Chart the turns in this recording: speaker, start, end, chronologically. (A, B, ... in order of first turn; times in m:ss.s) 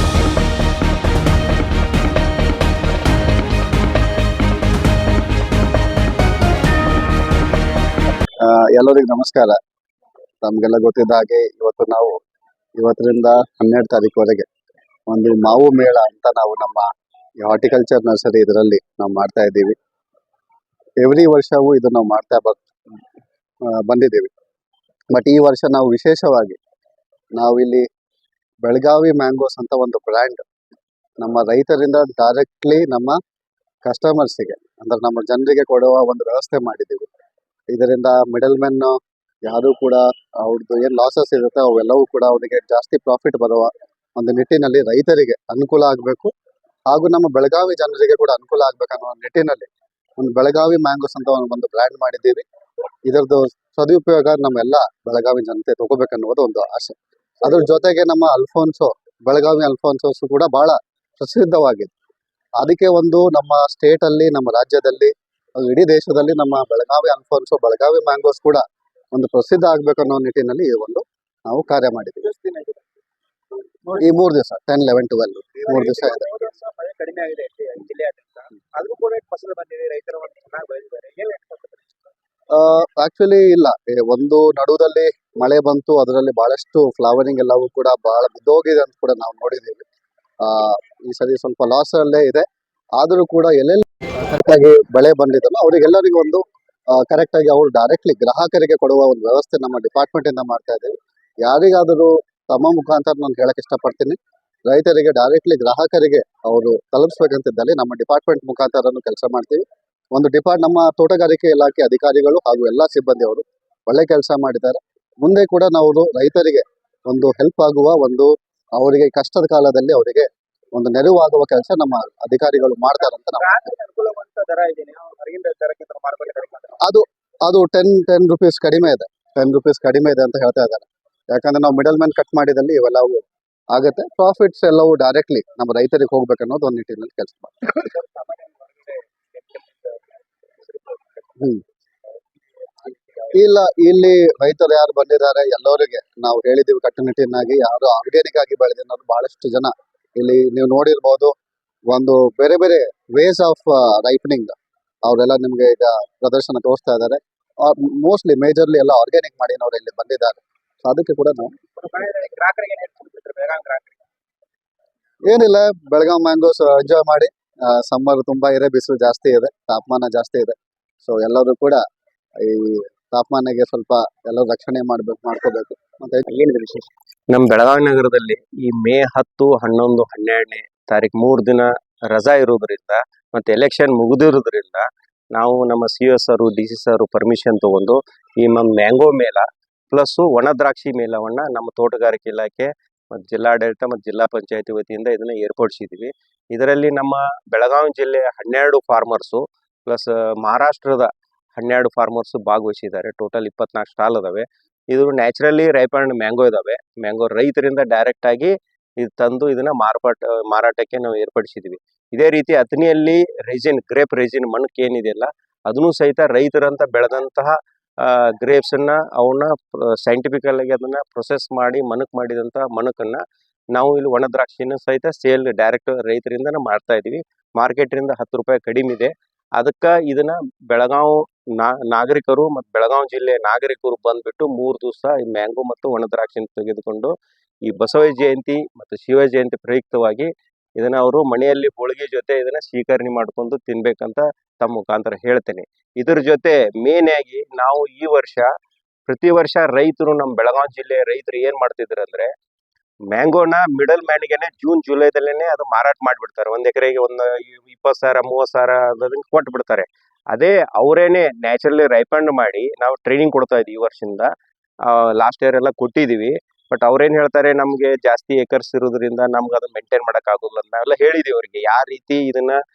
0:08.4-0:09.6 A
0:10.4-0:12.2 A
0:12.8-0:14.5 A
0:15.1-0:16.9 A
0:17.4-0:19.8 A
0:21.0-0:22.7 A
0:23.7-0:24.3 A
0:25.1-0:26.6 A
0:27.4-0:27.8 A
0:28.6-0:30.4 A
0:31.2-0:33.2 A
0:33.8-0:37.1 A
0:37.7-0:46.3 A
0:46.9-0:52.4 A
0:53.1-1:01.9 A
1:02.6-1:12.3 A
1:12.2-1:12.8 B
1:13.9-1:16.3 A
1:15.6-1:22.0 B
1:22.5-1:29.8 A
1:30.4-1:32.4 A
1:33.0-2:03.5 A
2:03.0-2:06.7 B
2:06.8-2:17.6 A
2:17.7-2:21.5 B
2:22.8-2:23.3 B
2:23.3-2:31.3 A
2:31.9-2:34.5 A
2:35.1-2:41.5 A
2:41.8-2:44.0 B
2:45.3-2:51.8 A
2:52.4-2:56.2 A
2:56.3-2:56.8 B
2:57.3-3:43.2 C
3:43.7-3:57.1 C
3:57.6-4:08.5 C
4:09.1-4:12.3 C
4:13.1-4:24.3 C
4:24.8-4:32.6 C